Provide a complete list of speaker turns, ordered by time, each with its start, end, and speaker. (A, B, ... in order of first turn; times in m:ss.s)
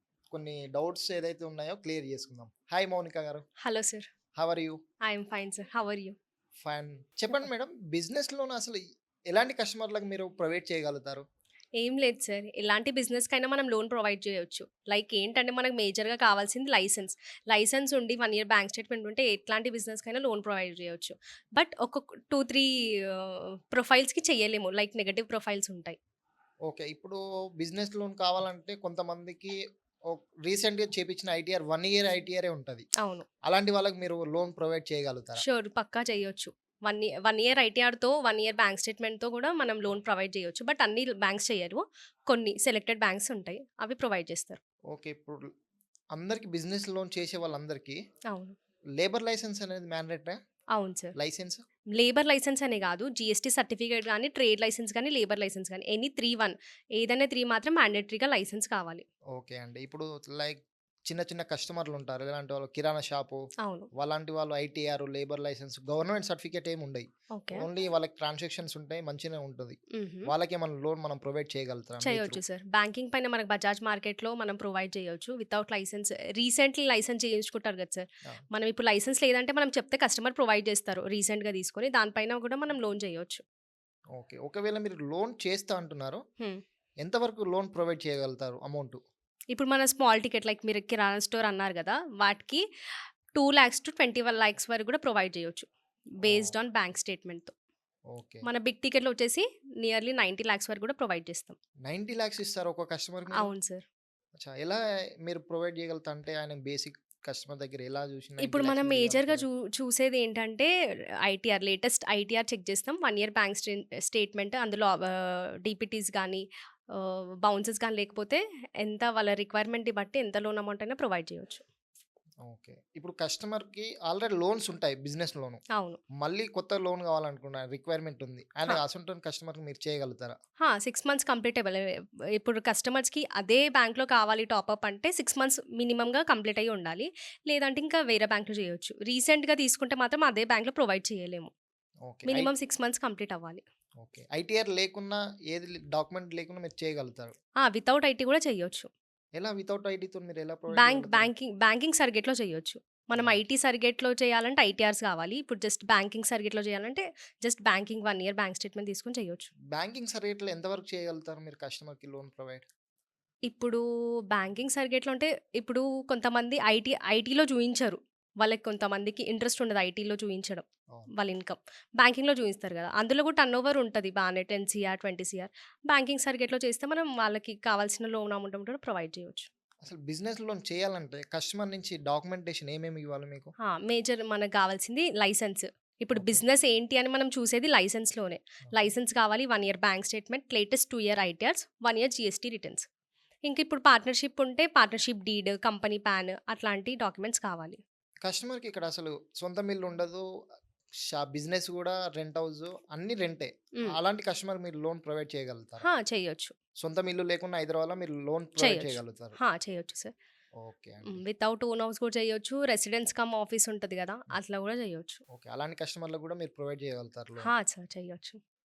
0:00.3-0:03.4 A
0:03.6-0:04.0 B
0:04.4-0:04.8 A
0:05.0-0:06.2 B
0:06.6-0:08.8 A
0:09.3-0:11.2 A
0:11.8-0:26.0 B
0:26.6-0:29.5 A
0:30.1-0:32.8 A
0:33.0-0:33.3 B
0:33.4-0:35.4 A
0:35.4-0:44.6 B
0:44.9-0:45.4 A
0:46.1-0:48.0 A
0:49.0-0:50.4 A
0:50.7-0:51.1 B
0:51.1-0:51.6 A
0:51.9-0:59.0 B
0:59.3-1:03.4 A
1:04.0-1:12.4 A
1:07.3-1:07.6 B
1:09.9-1:10.3 B
1:12.0-1:23.4 B
1:24.2-1:26.2 A
1:27.0-1:29.0 A
1:29.5-1:32.6 B
1:33.4-1:35.7 B
1:36.2-1:37.5 B
1:36.2-1:36.5 A
1:38.1-1:38.5 A
1:38.4-1:41.6 B
1:41.9-1:43.5 A
1:43.3-1:43.8 B
1:44.4-1:49.4 A
1:48.4-1:50.7 B
1:51.2-2:01.6 B
2:02.4-2:05.6 A
2:05.8-2:06.0 B
2:06.2-2:10.4 A
2:10.6-2:21.5 B
2:22.1-2:22.5 A
2:22.3-2:23.6 B
2:24.0-2:27.3 A
2:27.6-2:28.9 B
2:29.4-2:31.3 A
2:30.7-2:39.5 B
2:39.7-2:42.6 A
2:43.5-2:59.5 B
2:59.8-3:03.5 A
3:03.6-3:12.8 B
3:06.1-3:06.4 A
3:13.4-3:17.8 B
3:18.2-3:20.2 A
3:21.1-3:25.8 A
3:25.8-3:26.5 B
3:26.8-3:29.4 A
3:28.6-3:30.1 B
3:30.6-3:31.2 A
3:31.0-3:35.2 B
3:35.3-3:37.5 A
3:37.4-3:38.4 B